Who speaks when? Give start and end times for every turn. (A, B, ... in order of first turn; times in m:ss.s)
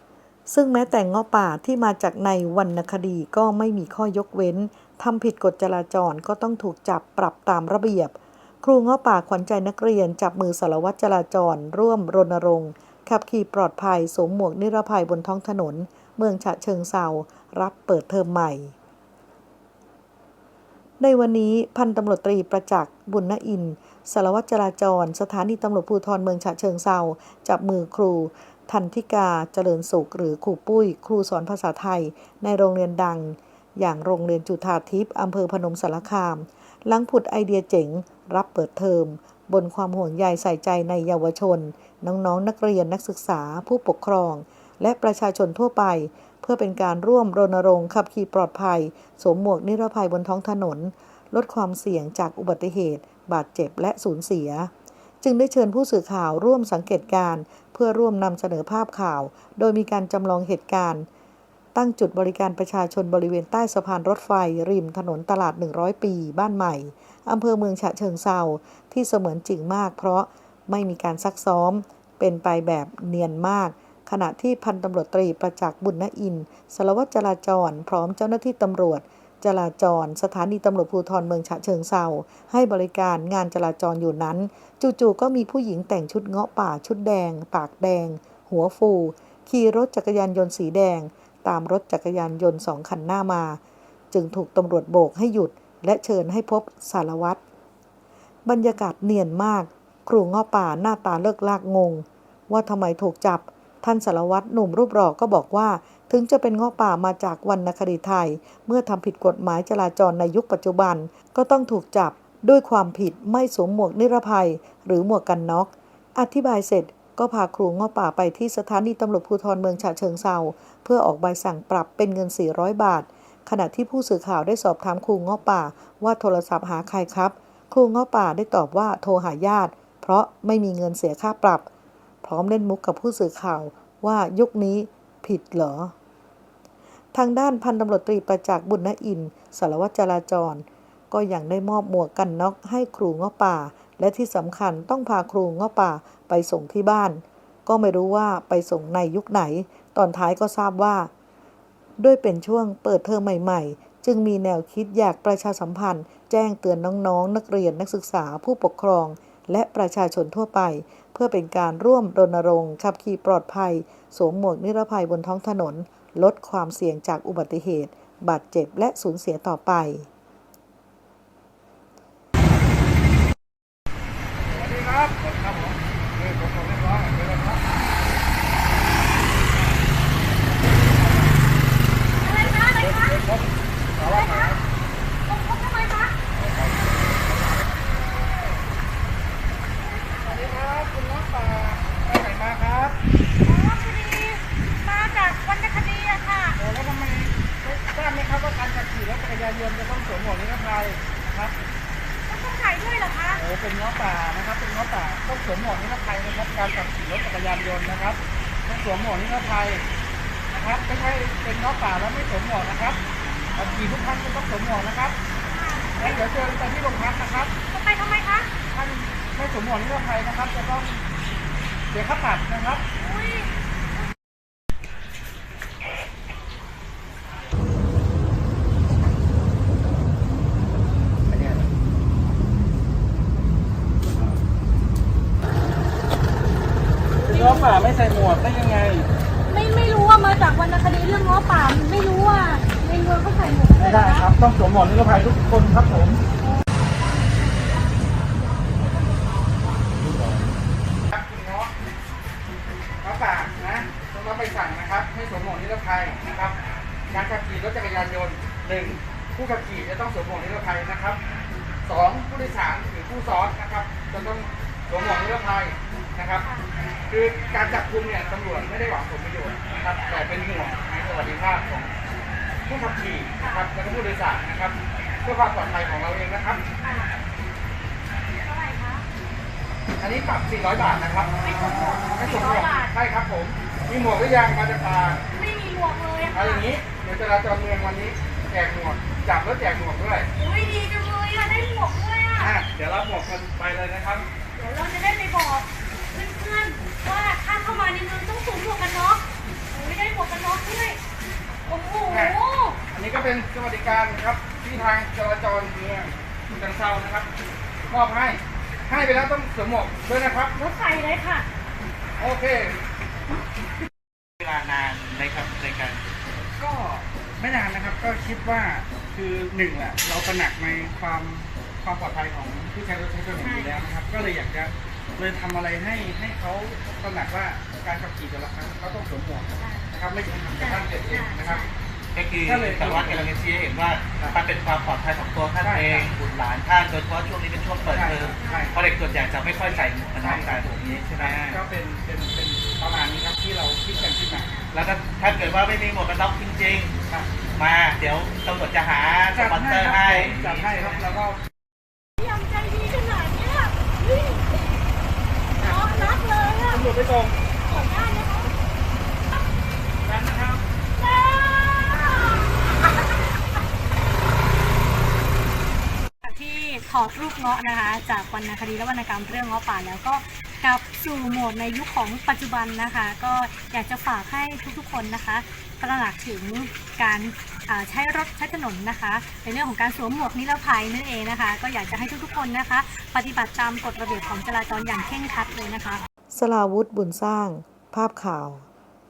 0:00.5-0:18.8 A
0:21.0-0:54.7 A
0:55.2-1:01.1 A
1:01.8-1:33.6 A
1:34.1-1:37.4 A
1:38.4-2:11.7 A
2:12.2-2:15.9 A
2:17.1-2:31.1 A
2:32.0-2:50.1 A
2:54.4-2:57.6 B
2:59.5-2:59.8 B
3:00.5-3:01.4 B
3:02.2-3:03.2 C
3:02.5-3:04.6 B
3:04.0-3:04.6 C
3:05.2-3:06.2 C
3:06.3-3:08.6 B
3:10.2-3:13.0 B
3:13.4-3:16.6 C
3:16.6-3:21.5 B
3:22.3-3:23.4 C
3:23.3-3:29.8 B
3:30.5-3:33.0 B
3:33.5-3:35.2 B
3:35.4-3:36.2 C
3:36.0-3:37.5 B
3:37.7-3:38.5 C
3:38.7-3:41.0 B
3:41.9-3:42.8 B
3:43.0-3:43.5 C
3:51.3-3:51.6 B
3:57.2-3:59.1 B
3:57.3-3:57.8 C
3:59.4-4:04.3 C
4:03.8-4:06.2 B
4:11.1-4:11.7 B
4:13.0-4:16.6 B
4:17.1-4:21.2 B
4:21.8-4:26.5 B
4:26.4-4:26.7 C
4:27.1-4:31.9 B
4:32.7-4:36.6 B
4:33.4-4:33.7 C
4:36.8-4:37.1 C
4:38.4-4:39.1 C
4:40.0-4:41.4 B
4:41.4-4:42.9 C
4:42.2-4:45.2 B
4:45.3-4:46.8 C
4:46.3-4:50.3 B
4:50.4-4:52.6 C
4:52.4-4:54.3 B
4:54.6-5:01.0 C
5:01.7-5:02.8 C
5:02.1-5:02.4 B
5:02.9-5:07.3 B
5:07.9-5:10.6 B
5:10.5-5:11.5 C
5:12.2-5:12.8 B
5:14.4-5:16.0 D
5:16.6-5:31.6 B
5:23.4-5:23.8 C
5:29.6-5:29.9 C
5:30.6-5:31.7 C
5:32.1-5:41.6 D
5:32.4-5:33.3 B
5:35.6-5:36.1 B
5:37.9-5:38.8 B
5:38.4-5:38.7 C
5:40.2-5:44.5 B
5:44.7-5:46.9 D
5:47.5-5:51.1 D
5:49.3-5:51.4 B
5:52.2-5:54.6 C
5:55.6-5:56.1 B
5:55.6-5:56.8 C
5:56.6-5:57.4 B
5:57.6-5:58.5 C
6:00.0-6:00.6 B
6:00.9-6:02.5 C
6:06.2-6:26.0 C
6:26.3-6:28.7 A